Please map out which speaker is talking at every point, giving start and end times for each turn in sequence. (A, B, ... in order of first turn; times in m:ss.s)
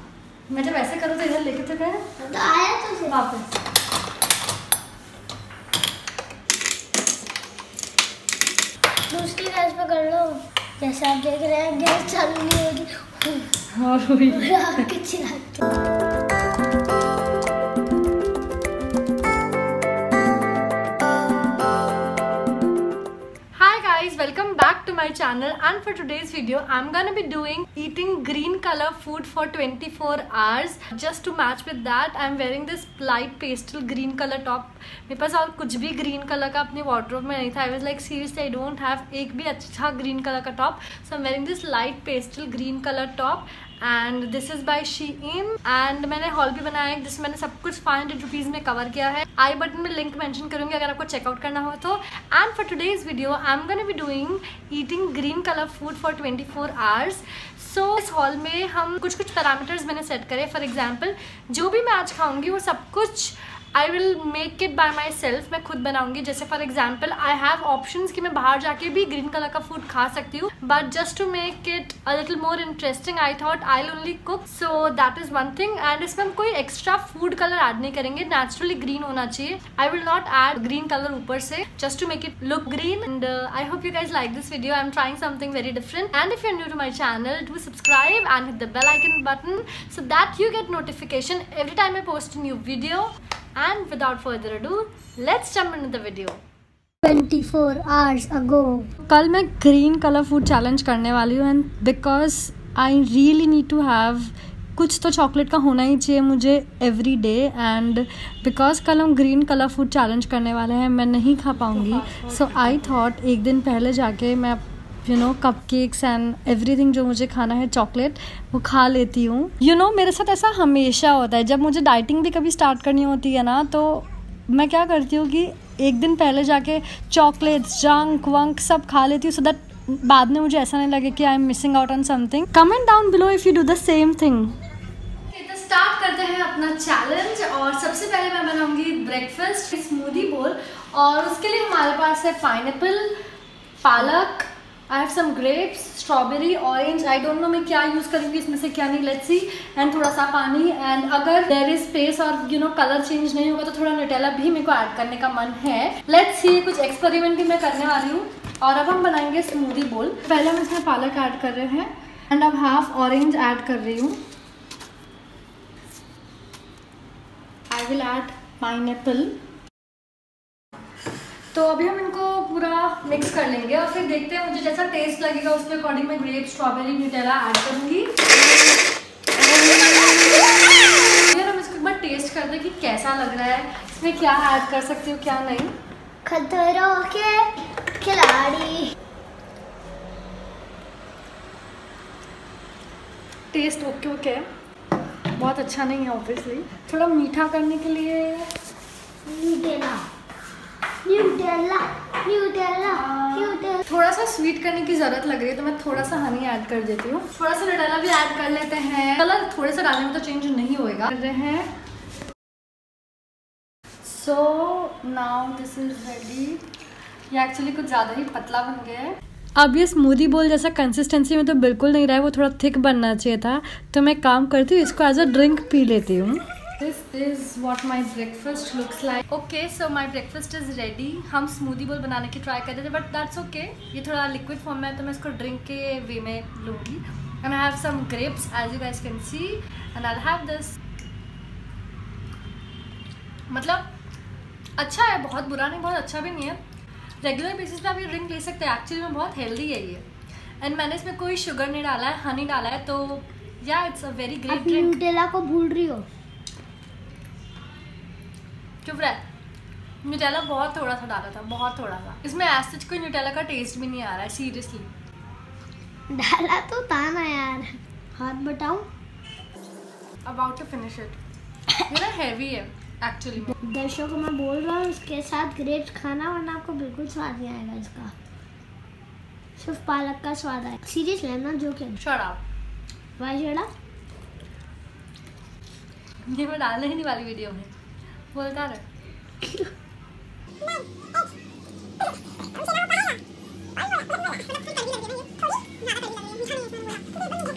0:00.5-0:02.1 A
0:02.2-0:03.1 B
0:03.1-0:03.6 A
0:09.1-0:13.5 B
0:13.7-0:14.5 A
0:14.3-0:15.6 B
0:23.5-1:36.4 A
1:37.0-1:38.9 B
1:39.0-2:14.5 A
2:15.3-2:23.1 A
2:23.8-2:44.2 A
2:47.7-2:49.4 A
2:51.5-2:58.2 A
3:01.2-3:05.7 A
3:06.2-3:08.9 B
3:13.5-3:14.4 A
3:15.3-3:18.5 A
3:19.2-3:20.0 B
3:21.0-3:23.8 B
3:22.8-3:31.7 A
3:34.0-3:36.6 A
3:37.3-4:00.8 A
4:03.5-4:03.9 A
4:04.8-4:06.6 A
4:07.2-4:10.0 A
4:10.6-4:15.0 A
4:14.5-4:16.1 B
4:18.8-4:19.2 A
4:20.0-4:24.9 A
4:26.1-4:28.9 B
4:30.2-4:31.2 A
4:31.8-4:33.5 A
4:33.6-4:38.1 B
4:39.6-4:42.0 B
4:42.0-4:42.4 A
4:43.2-4:43.7 B
4:46.3-4:47.7 A
4:48.3-4:48.8 A